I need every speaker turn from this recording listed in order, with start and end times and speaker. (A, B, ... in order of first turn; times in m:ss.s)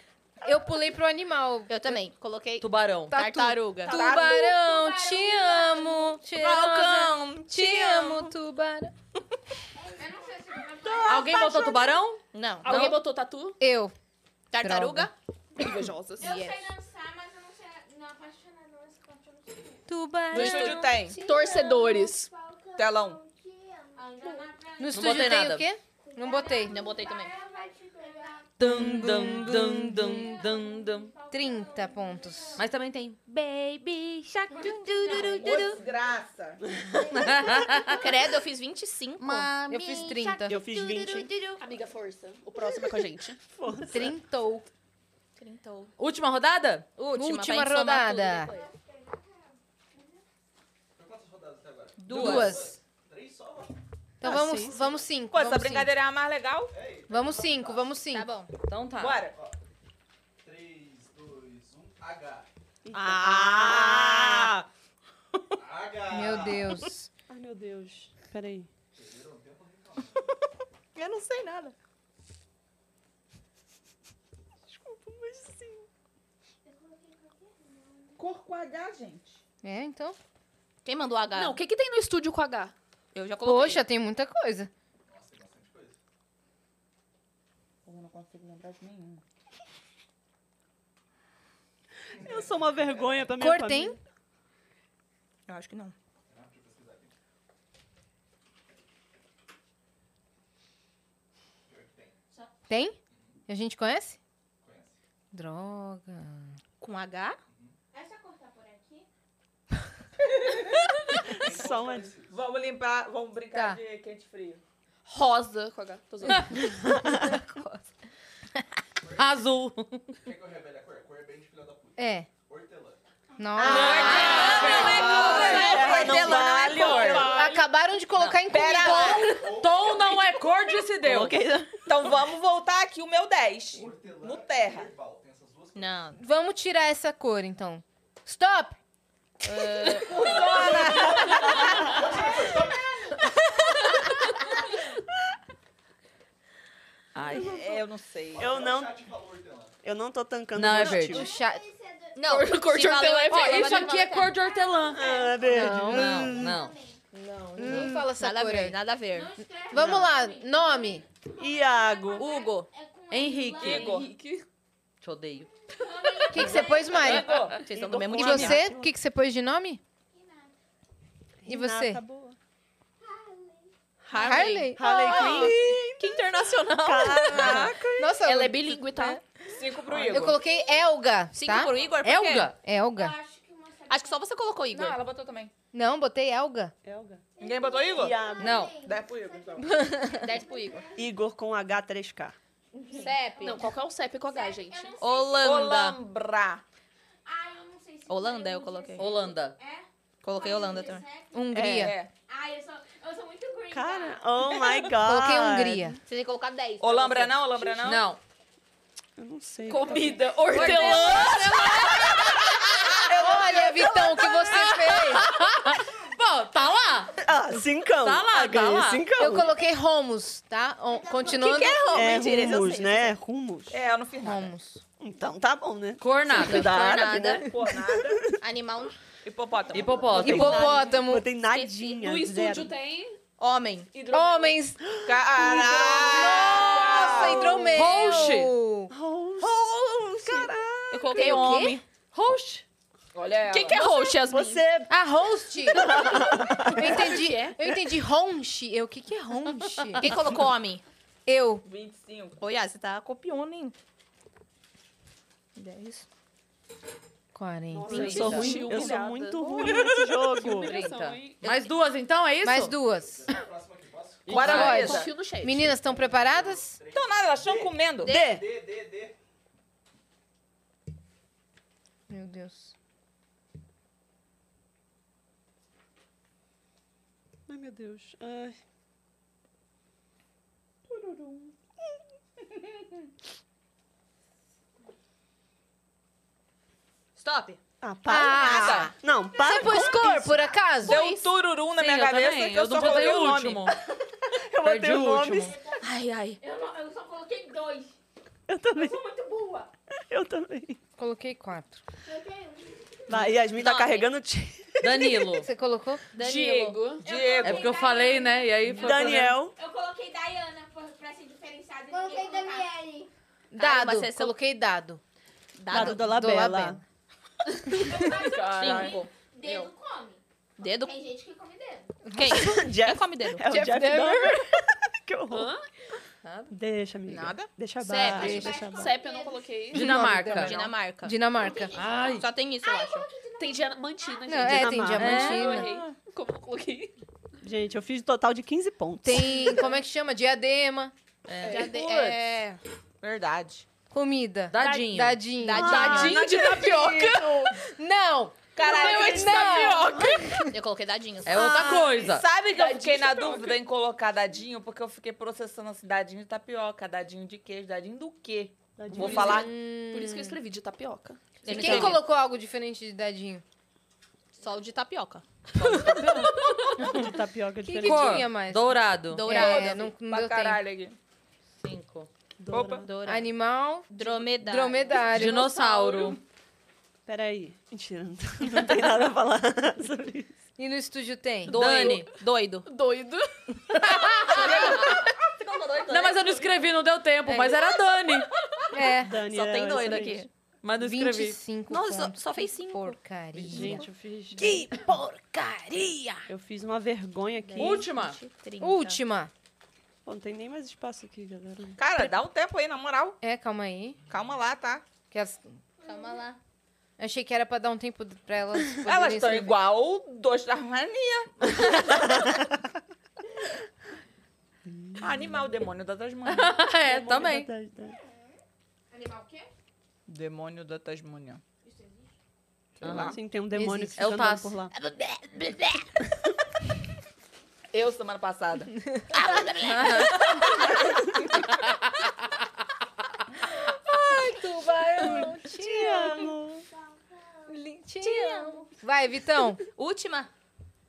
0:00.4-0:01.9 A
0:01.7-0:04.3 B
0:02.6-0:03.2 C
0:03.1-0:08.9 A
0:03.9-0:06.1 D
0:06.3-0:08.3 B
0:09.8-0:10.1 E
0:09.9-0:11.8 D
0:11.0-0:12.2 C
0:12.3-0:13.0 B
0:12.6-0:13.6 F
0:13.6-0:13.9 A
0:14.5-0:15.1 B
0:14.6-0:15.1 A
0:15.6-0:16.2 F
0:15.6-0:15.9 G
0:16.2-0:16.7 B
0:16.2-0:19.8 D
0:19.9-0:20.7 A
0:20.3-0:21.1 B
0:20.3-0:22.3 F
0:20.3-0:21.1 G
0:21.1-0:24.4 E
0:21.2-0:21.7 D
0:22.8-0:23.2 G
0:24.0-0:25.3 D
0:24.8-0:26.8 A
0:24.9-0:25.7 C
0:26.0-0:28.4 E
0:26.3-0:28.5 D
0:26.7-0:27.3 B
0:28.6-0:31.1 C
0:28.6-0:30.3 A
0:30.2-0:32.6 E
0:30.4-0:32.1 D
0:31.3-0:32.6 A
0:32.6-0:33.3 C
0:33.3-0:35.8 B
0:35.0-0:35.7 D
0:35.3-0:36.6 G
0:37.1-0:37.8 E
0:37.1-0:38.0 C
0:37.8-0:40.2 B
0:39.7-0:40.6 A
0:39.7-0:41.5 E
0:40.4-0:41.3 H
0:41.6-0:43.4 F
0:43.5-0:44.1 H
0:43.9-0:44.7 A
0:45.4-0:45.9 B
0:46.0-0:46.9 C
0:47.0-0:48.7 B
0:47.1-0:48.5 A
0:48.5-0:49.5 E
0:51.0-0:53.8 I
0:52.1-0:52.5 G
0:52.1-0:52.8 A
0:54.2-0:55.9 A
0:54.2-0:54.8 H
0:55.3-0:56.7 G
0:56.7-0:58.0 I
0:57.1-0:58.3 A
0:58.1-0:58.5 B
0:58.6-0:59.3 C
0:59.0-0:59.3 G
1:00.4-1:02.5 I
1:02.8-1:04.6 H
1:03.1-1:04.5 B
1:05.6-1:06.8 I
1:06.1-1:07.1 A
1:07.3-1:08.7 H
1:08.9-1:10.3 I
1:11.0-1:11.7 B
1:14.7-1:15.9 H
1:16.6-1:18.1 E
1:18.2-1:19.4 G
1:19.6-1:20.2 A
1:20.8-1:21.6 B
1:21.3-1:22.7 F
1:23.1-1:23.8 B
1:23.4-1:24.7 A
1:25.0-1:26.0 I
1:27.8-1:29.2 G
1:32.1-1:33.4 I
1:32.2-1:34.0 H
1:33.4-1:34.0 A
1:35.5-1:35.9 B
1:36.3-1:37.1 I
1:41.7-1:42.2 I
1:42.7-1:43.0 A
1:43.5-1:44.2 A
1:44.6-1:45.0 I
1:45.3-1:46.6 A
1:46.8-1:47.4 B
1:47.5-1:47.8 I
1:47.9-1:49.0 D
1:51.3-1:52.4 I
1:51.4-1:52.2 H
1:52.3-1:54.6 G
1:53.5-1:53.8 A
1:55.0-1:56.7 F
1:56.9-1:57.2 H
1:57.3-1:57.8 B
1:59.0-1:59.3 I
1:59.2-2:00.1 C
2:00.2-2:03.0 I
2:02.0-2:02.3 A
2:03.4-2:05.6 A
2:03.6-2:05.8 C
2:03.6-2:07.3 B
2:03.6-2:07.4 H
2:04.4-2:07.4 G
2:04.9-2:06.3 F
2:06.8-2:09.3 A
2:06.9-2:07.6 F
2:08.2-2:08.9 C
2:08.5-2:09.4 G
2:09.1-2:09.4 B
2:09.2-2:10.5 I
2:09.5-2:11.4 C
2:11.0-2:11.7 H
2:11.2-2:11.6 B
2:11.8-2:14.9 G
2:13.7-2:16.1 I
2:15.7-2:16.2 B
2:16.2-2:18.8 A
2:19.4-2:21.4 B
2:19.8-2:20.5 F
2:20.3-2:20.6 I
2:20.5-2:21.9 H
2:20.5-2:20.9 G
2:21.0-2:21.6 F
2:21.4-2:23.1 I
2:22.0-2:23.1 E
2:27.1-2:27.5 C
2:27.2-2:27.8 H
2:27.3-2:28.5 G
2:28.3-2:29.8 I
2:28.4-2:29.0 H
2:29.8-2:31.3 H
2:30.5-2:31.3 C
2:31.1-2:32.2 E
2:31.1-2:31.6 A
2:32.1-2:34.3 B
2:32.2-2:33.9 F
2:33.3-2:36.7 C
2:34.0-2:35.2 D
2:34.4-2:37.0 E
2:34.9-2:36.5 H
2:35.5-2:36.4 A
2:37.1-2:38.8 A
2:37.6-2:39.4 B
2:37.6-2:37.9 C
2:39.1-2:41.1 D
2:39.7-2:41.0 A
2:39.7-2:40.1 H
2:41.4-2:42.3 H
2:41.4-2:42.2 E
2:41.7-2:44.0 D
2:42.2-2:42.7 B
2:43.1-2:44.0 C
2:43.6-2:44.4 F
2:43.6-2:44.0 G
2:45.0-2:45.5 C
2:45.8-2:47.4 D
2:46.3-2:47.3 A
2:46.5-2:46.9 E
2:47.0-2:47.6 G
2:47.0-2:48.6 B
2:47.7-2:48.9 H
2:48.1-2:49.8 A
2:51.4-2:52.4 H
2:51.4-2:52.0 A
2:53.0-2:53.7 E
2:54.1-2:57.7 B
2:54.1-2:55.5 A
2:54.7-2:56.2 H
2:56.8-2:58.0 H
2:57.4-2:57.8 G
2:58.0-2:58.8 A
2:58.2-2:59.2 F
2:59.5-3:00.4 G
3:00.1-3:01.7 A
3:00.3-3:00.8 E
3:01.3-3:02.5 B
3:02.0-3:02.5 C
3:02.6-3:03.1 A
3:02.9-3:04.2 D
3:03.9-3:05.0 B
3:04.7-3:05.5 G
3:05.7-3:06.7 A
3:06.8-3:07.2 H
3:07.4-3:10.8 E
3:07.4-3:08.2 G
3:07.9-3:08.7 H
3:08.4-3:08.7 C
3:08.8-3:09.7 G
3:09.6-3:10.2 A
3:10.2-3:10.9 B
3:10.2-3:11.0 D
3:11.0-3:12.4 H
3:12.7-3:13.6 D
3:12.9-3:13.7 B
3:13.4-3:15.0 F
3:14.3-3:15.6 D
3:15.0-3:16.0 B
3:15.4-3:16.6 G
3:17.2-3:21.4 D
3:18.1-3:19.2 B
3:19.0-3:19.5 C
3:20.2-3:21.1 B
3:21.3-3:22.0 A
3:21.5-3:22.1 G
3:22.3-3:24.3 D
3:23.7-3:25.9 H
3:25.0-3:26.0 A
3:26.0-3:27.4 B
3:26.8-3:28.1 G
3:27.8-3:28.2 C
3:29.2-3:32.3 H
3:29.7-3:31.6 F
3:30.5-3:32.2 C
3:33.0-3:34.4 H
3:33.1-3:35.3 A
3:34.5-3:37.2 C
3:37.2-3:39.5 H
3:37.9-3:39.0 C
3:39.2-3:42.0 A
3:40.9-3:41.3 E
3:41.2-3:43.1 B
3:41.8-3:43.8 H
3:43.7-3:44.5 G
3:44.2-3:44.8 A
3:45.0-3:48.2 H
3:46.0-3:46.7 C
3:46.3-3:47.4 B
3:47.2-3:48.2 G
3:48.4-3:48.9 B
3:49.2-3:50.3 G
3:49.7-3:50.7 C
3:50.1-3:52.7 H
3:50.2-3:51.3 A
3:50.3-3:50.9 B
3:51.5-3:51.9 B
3:51.8-3:53.2 F
3:53.4-3:53.9 B
3:53.9-3:54.6 F
3:54.1-3:54.8 A
3:54.8-3:57.9 H
3:55.0-3:57.4 G
3:55.7-3:58.9 A
3:55.8-3:57.5 F
3:57.7-3:58.5 C
3:58.9-4:01.4 H
3:59.4-4:01.8 B
4:01.1-4:01.8 A
4:02.1-4:02.6 C
4:03.1-4:03.8 G
4:03.5-4:04.6 F
4:03.5-4:04.1 B
4:04.2-4:04.9 H
4:04.9-4:10.1 A
4:05.7-4:07.1 H
4:05.9-4:07.5 F
4:10.0-4:10.8 B
4:11.2-4:11.6 A
4:11.6-4:12.4 G
4:12.4-4:13.8 B
4:15.6-4:16.0 B
4:17.3-4:18.6 A
4:17.7-4:20.8 H
4:17.9-4:18.5 C
4:17.9-4:21.5 F
4:18.1-4:18.4 B
4:20.5-4:22.8 C
4:22.4-4:23.3 A
4:23.0-4:24.5 I
4:24.3-4:25.1 G
4:24.3-4:26.8 A
4:24.3-4:25.7 F
4:24.4-4:24.8 C
4:25.6-4:29.1 I
4:26.9-4:28.1 G
4:28.0-4:28.4 H
4:32.1-4:32.7 A
4:37.5-4:38.6 H
4:40.9-4:41.5 G
4:47.2-4:47.6 B
4:47.8-4:50.5 H
4:48.1-4:51.1 A
4:48.3-4:48.9 G
4:50.8-4:53.7 G
4:51.7-4:53.7 C
4:54.3-4:55.6 H
4:54.6-4:55.5 C
4:55.5-4:55.8 D
4:55.8-4:56.4 B
4:56.4-4:57.9 D
4:58.5-4:59.0 H
4:58.7-4:59.7 D
5:00.1-5:00.8 H
5:01.0-5:01.8 A
5:02.1-5:02.7 D
5:03.1-5:05.4 H
5:03.5-5:04.1 B
5:04.8-5:05.5 C
5:05.4-5:06.0 A
5:06.1-5:06.9 B
5:06.1-5:07.0 F
5:07.0-5:07.7 G
5:07.0-5:12.8 D
5:07.4-5:09.3 C
5:08.7-5:09.5 H
5:11.9-5:13.1 E
5:13.5-5:14.4 B
5:13.5-5:15.0 A
5:15.6-5:16.3 B
5:15.7-5:16.8 H
5:15.7-5:16.8 A
5:17.5-5:18.9 F
5:18.1-5:22.0 D
5:18.2-5:19.0 G
5:18.5-5:19.7 B
5:20.6-5:21.0 B
5:22.0-5:22.5 A
5:22.1-5:23.4 B
5:22.3-5:25.5 H
5:23.4-5:24.2 F
5:23.7-5:24.2 A
5:25.3-5:25.6 F
5:26.2-5:26.5 C
5:26.5-5:28.9 H
5:27.1-5:28.5 B
5:28.0-5:28.6 A
5:28.1-5:29.5 D
5:28.7-5:29.9 F
5:29.7-5:30.6 C
5:29.7-5:31.8 A
5:30.3-5:31.3 B
5:31.4-5:32.1 E
5:31.4-5:33.3 D
5:31.8-5:32.2 C
5:32.0-5:33.1 B
5:32.6-5:34.2 E
5:33.4-5:36.9 F
5:34.2-5:35.7 A
5:34.4-5:35.2 H
5:35.0-5:35.6 C
5:37.4-5:39.6 H
5:39.0-5:40.9 A
5:41.3-5:41.7 C
5:41.4-5:42.6 B
5:43.0-5:43.6 G
5:43.9-5:46.0 A
5:44.5-5:45.2 C
5:45.4-5:46.4 B
5:45.6-5:47.6 F
5:45.7-5:47.4 H
5:47.6-5:50.5 A
5:48.6-5:49.6 G
5:48.6-5:50.4 F
5:50.5-5:51.8 B
5:51.2-5:52.2 C
5:52.0-5:59.5 G
5:52.5-5:53.6 F
5:58.8-5:59.5 H
5:59.0-6:00.4 A
5:59.9-6:01.3 F
6:01.4-6:02.0 B
6:01.5-6:03.4 A
6:01.5-6:01.9 C
6:04.3-6:05.2 B
6:05.6-6:06.3 C
6:06.4-6:06.7 F
6:06.8-6:07.1 A
6:06.8-6:08.3 H
6:07.6-6:10.6 A
6:07.8-6:09.3 C
6:09.1-6:09.9 B
6:09.3-6:11.0 G
6:11.6-6:12.1 C
6:12.4-6:12.9 H
6:12.5-6:12.8 G
6:12.8-6:13.2 B
6:13.0-6:15.6 A
6:13.9-6:15.1 B
6:15.1-6:16.2 C
6:17.0-6:20.3 H
6:20.6-6:21.6 A
6:21.4-6:22.7 B
6:21.5-6:22.1 C
6:22.6-6:23.4 F
6:23.8-6:24.8 C
6:24.3-6:25.0 B
6:24.4-6:24.9 G
6:25.4-6:26.3 G
6:25.9-6:28.3 C
6:27.2-6:27.6 A
6:28.7-6:29.2 A
6:29.0-6:30.2 H
6:29.2-6:30.3 B
6:30.6-6:31.4 C
6:30.8-6:33.8 A
6:31.7-6:33.0 B
6:33.4-6:33.8 C
6:33.5-6:34.5 H
6:33.5-6:33.8 B
6:34.4-6:36.2 B
6:36.3-6:37.9 H
6:37.4-6:39.0 B
6:37.6-6:38.2 C
6:38.6-6:39.3 A
6:40.0-6:41.8 H
6:41.8-6:43.2 G
6:43.2-6:44.0 A
6:44.1-6:44.8 G
6:45.1-6:45.6 A
6:45.8-6:46.4 B
6:47.0-6:49.6 A
6:48.8-6:52.1 G
6:54.6-6:55.2 H
6:55.0-6:56.6 G
6:56.3-6:57.5 C
6:56.8-6:57.9 H
6:58.9-6:59.5 D
7:00.1-7:01.4 G
7:01.6-7:02.1 D
7:02.8-7:03.2 G
7:02.8-7:03.2 C
7:02.8-7:04.7 H
7:03.5-7:04.1 A
7:04.0-7:04.5 C
7:07.7-7:08.7 G
7:09.1-7:10.2 B
7:09.7-7:10.1 A
7:13.9-7:16.4 A
7:15.0-7:16.6 H
7:16.9-7:17.5 E
7:17.5-7:19.6 A
7:18.0-7:18.6 B
7:19.8-7:20.3 B